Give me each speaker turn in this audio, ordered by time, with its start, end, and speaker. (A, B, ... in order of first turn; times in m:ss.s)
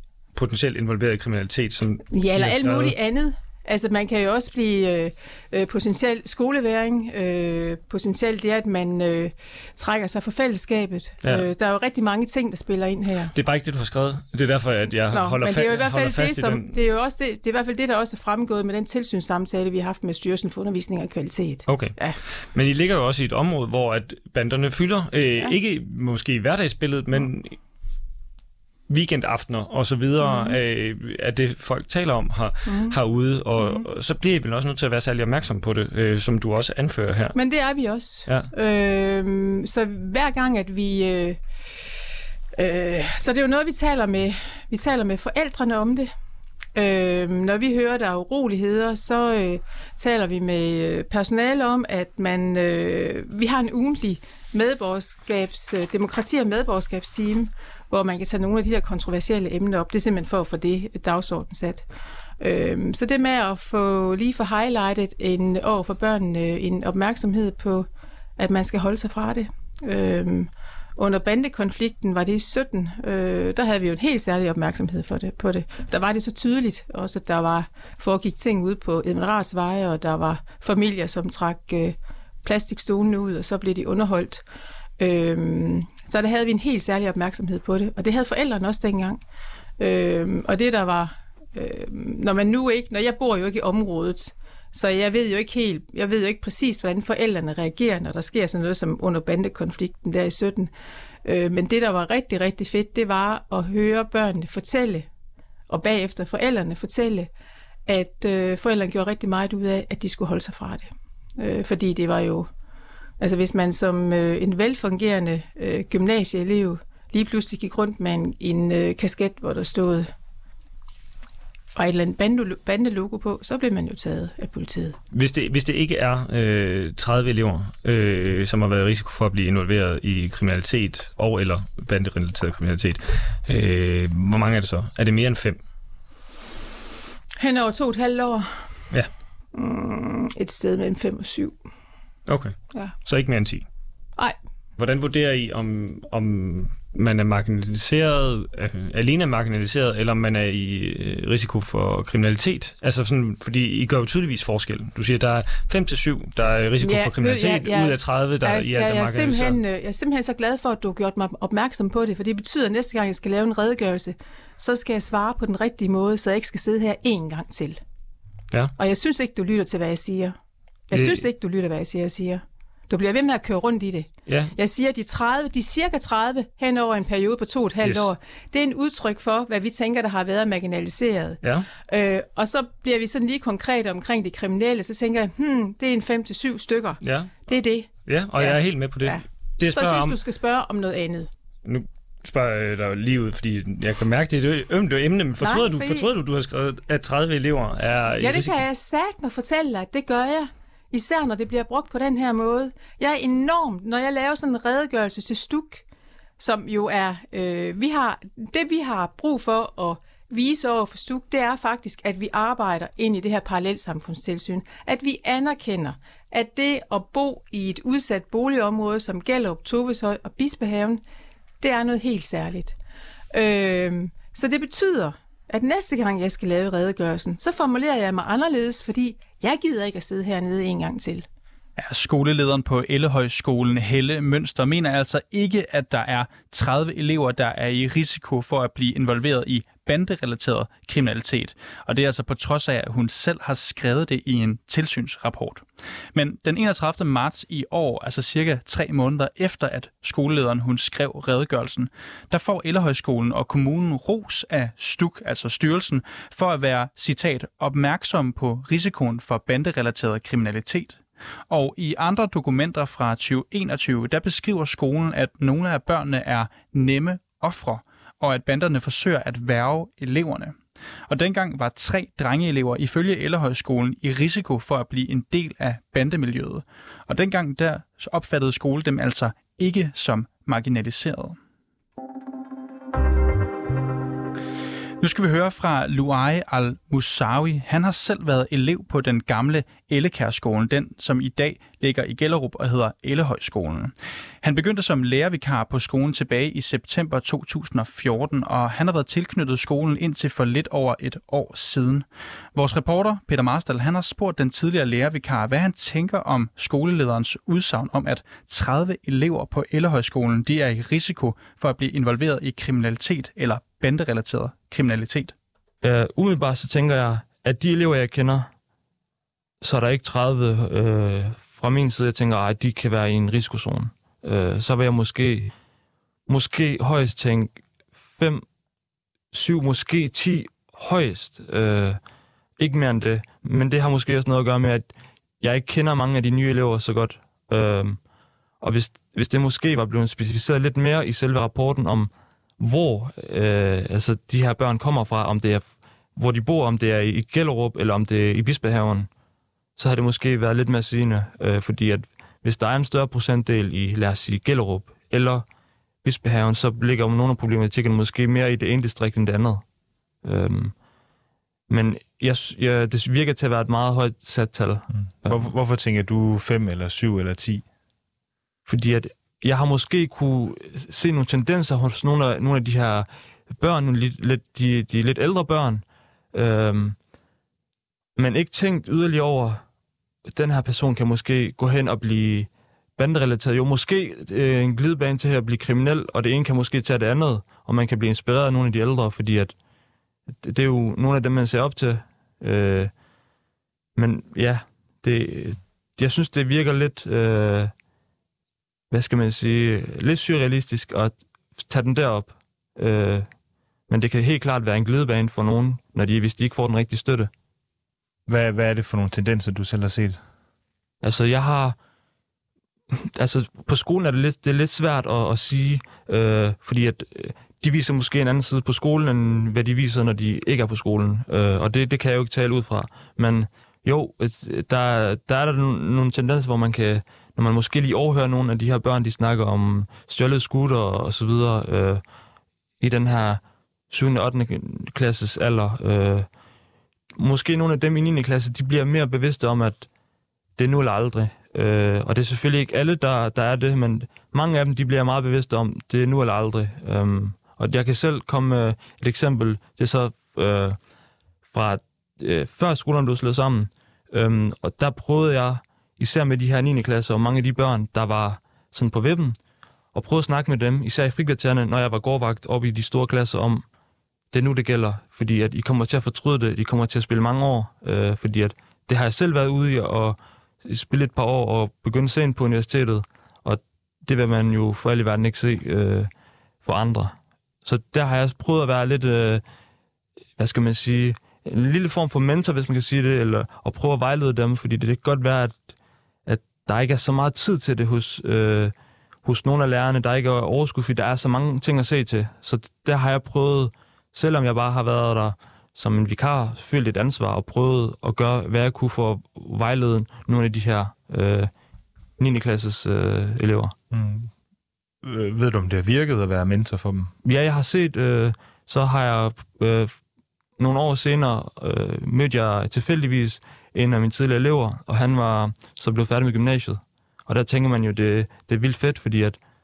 0:00.3-0:02.9 A
0:02.1-0:13.3 B
0:11.2-0:11.5 A
0:13.3-0:16.7 A
0:15.1-0:22.2 B
0:21.7-0:27.6 A
0:28.9-0:37.4 A
0:30.2-0:30.6 B
0:32.6-0:33.0 B
0:33.6-0:33.8 B
0:37.3-0:41.4 B
0:42.6-0:46.1 B
0:46.7-1:01.8 B
1:02.4-1:24.4 B
1:25.0-1:29.2 B
1:29.8-1:40.7 B
1:41.2-1:45.1 B
1:45.7-1:47.3 B
1:47.9-1:52.5 B
1:53.2-2:00.1 B
2:01.7-2:05.0 B
2:05.1-2:15.6 A
2:17.4-2:18.7 B
2:19.5-2:21.5 B
2:22.3-2:23.6 A
2:24.8-2:39.6 A
2:36.8-2:47.8 B
2:48.8-2:50.3 B
2:50.9-3:11.3 B
2:50.9-2:51.2 A
2:54.3-2:54.5 A
2:57.8-2:58.1 A
3:01.4-3:01.7 A
3:07.0-3:07.4 A
3:08.0-3:10.2 A
3:11.6-3:18.6 A
3:15.4-3:16.1 B
3:18.2-3:25.8 B
3:26.4-3:41.0 B
3:41.6-3:42.7 B
3:43.3-3:51.2 B
3:51.8-4:30.6 C
4:31.1-4:41.4 C
4:45.0-5:15.3 C
5:15.8-5:18.5 D
5:19.6-5:25.5 D
5:26.3-5:28.4 D
5:29.3-5:32.0 D
5:32.6-5:38.0 D
5:38.6-5:49.1 D
5:49.8-5:55.4 D
5:56.0-5:59.6 D
6:00.2-6:00.8 D
6:01.7-6:05.5 D
6:04.9-6:07.6 E
6:08.6-6:17.0 D
6:18.2-6:19.6 D
6:20.3-6:29.5 D
6:30.3-6:32.9 D
6:34.0-6:37.7 D
6:38.9-6:43.3 D
6:43.9-6:47.3 D
6:48.3-6:50.2 E
6:51.0-6:51.8 D
6:52.9-7:12.0 D
7:12.8-7:16.3 D
7:17.1-7:19.9 D
7:20.6-7:30.8 D
7:31.5-7:39.4 D
7:39.9-7:43.6 D
7:44.3-7:56.1 D
7:56.6-7:59.4 D
8:00.4-8:05.6 D
8:06.2-8:21.5 D
8:22.2-8:23.7 D
8:23.9-8:24.3 E
8:25.0-8:27.1 E
8:27.2-8:30.0 D
8:30.6-8:39.4 D